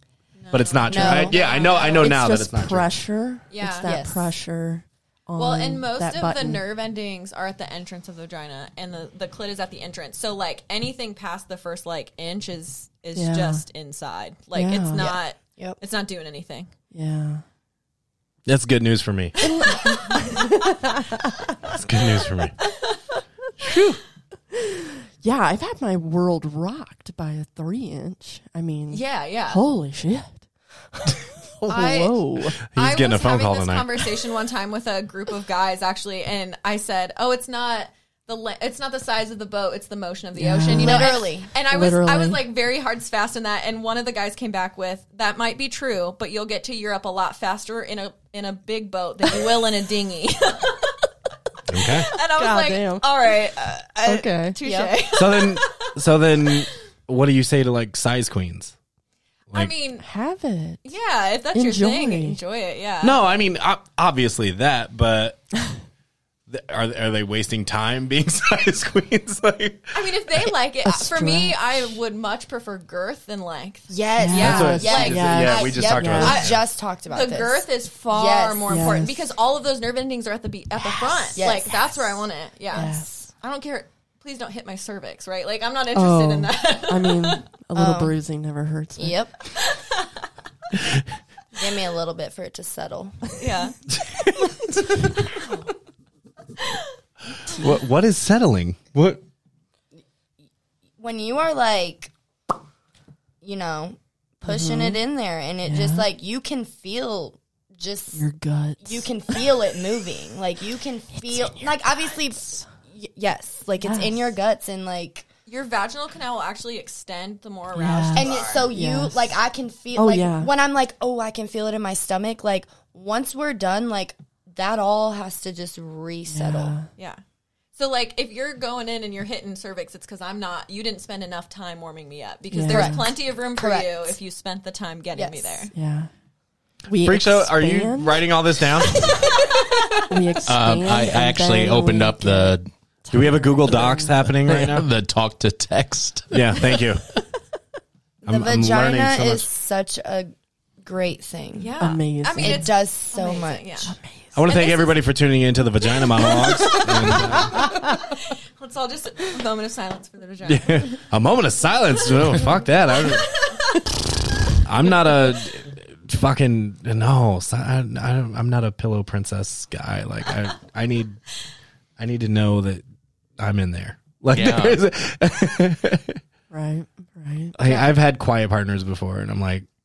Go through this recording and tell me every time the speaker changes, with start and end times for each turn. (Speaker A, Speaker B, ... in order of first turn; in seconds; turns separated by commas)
Speaker A: 0.4-2.2, Speaker B: 0.5-2.9, Speaker C: 0.9-1.6, Speaker D: 1.0-6.6, Speaker A: 3.5-3.9, Speaker C: 3.8-4.3, Speaker A: 5.4-16.7, Speaker D: 13.1-13.6, Speaker D: 14.5-15.1, Speaker C: 14.9-15.8, Speaker D: 16.9-17.4, Speaker B: 18.4-19.3, Speaker D: 19.4-21.6, Speaker A: 19.8-20.5, Speaker B: 21.6-22.5, Speaker A: 22.6-23.0, Speaker D: 23.6-24.0, Speaker D: 24.5-32.6, Speaker A: 28.9-29.6, Speaker A: 31.7-32.2, Speaker B: 32.7-34.1, Speaker A: 32.7-51.1, Speaker D: 40.3-41.1, Speaker C: 40.7-41.5, Speaker D: 41.6-42.4, Speaker B: 51.7-52.1, Speaker A: 51.8-55.9, Speaker D: 52.2-53.0, Speaker D: 54.0-54.6, Speaker C: 54.6-55.0, Speaker B: 55.1-58.7, Speaker A: 59.5-60.0, Speaker D: 60.0-60.9, Speaker A: 60.8-63.3, Speaker D: 61.5-62.4, Speaker B: 63.0-65.4, Speaker B: 66.5-70.1, Speaker A: 69.9-75.5, Speaker D: 70.8-71.9, Speaker C: 73.9-79.0, Speaker D: 74.2-76.4, Speaker B: 74.4-76.6, Speaker A: 76.2-76.6, Speaker A: 77.1-87.4, Speaker D: 78.7-79.2, Speaker C: 81.0-82.2, Speaker D: 82.7-83.1, Speaker D: 85.9-89.2, Speaker C: 87.7-88.1, Speaker C: 89.0-89.4, Speaker A: 89.6-90.1, Speaker C: 91.5-93.4, Speaker A: 93.4-93.8, Speaker B: 93.9-95.0, Speaker A: 95.2-95.4, Speaker A: 96.6-96.8, Speaker B: 97.5-99.2, Speaker C: 101.0-102.1, Speaker C: 103.4-108.2, Speaker D: 104.5-105.0, Speaker D: 105.6-106.1, Speaker D: 108.1-109.5, Speaker C: 108.8-115.3, Speaker D: 111.1-112.7, Speaker D: 113.8-114.3, Speaker A: 115.5-118.7, Speaker D: 117.7-119.4, Speaker C: 118.2-126.8, Speaker D: 119.9-120.5, Speaker D: 126.3-126.9, Speaker A: 126.9-127.2, Speaker A: 127.7-135.7, Speaker D: 132.5-133.0, Speaker C: 132.7-134.2, Speaker C: 135.1-135.7, Speaker D: 135.7-136.1, Speaker D: 136.9-138.3, Speaker B: 137.0-139.4, Speaker A: 139.0-140.1, Speaker D: 140.1-144.1, Speaker E: 140.4-142.7, Speaker B: 143.1-144.9, Speaker E: 144.3-146.8, Speaker B: 146.3-147.0, Speaker C: 148.2-151.7, Speaker B: 148.2-149.5, Speaker A: 151.6-154.9, Speaker D: 151.8-152.7, Speaker C: 152.4-153.9, Speaker D: 153.8-154.4, Speaker B: 154.3-157.8, Speaker D: 156.2-157.8, Speaker A: 156.2-161.0, Speaker B: 160.4-163.3, Speaker A: 162.9-163.8, Speaker B: 164.6-171.2, Speaker B: 172.0-172.8, Speaker B: 173.4-176.2, Speaker E: 174.3-174.8, Speaker D: 176.5-177.6, Speaker B: 177.6-179.7, Speaker C: 177.6-177.9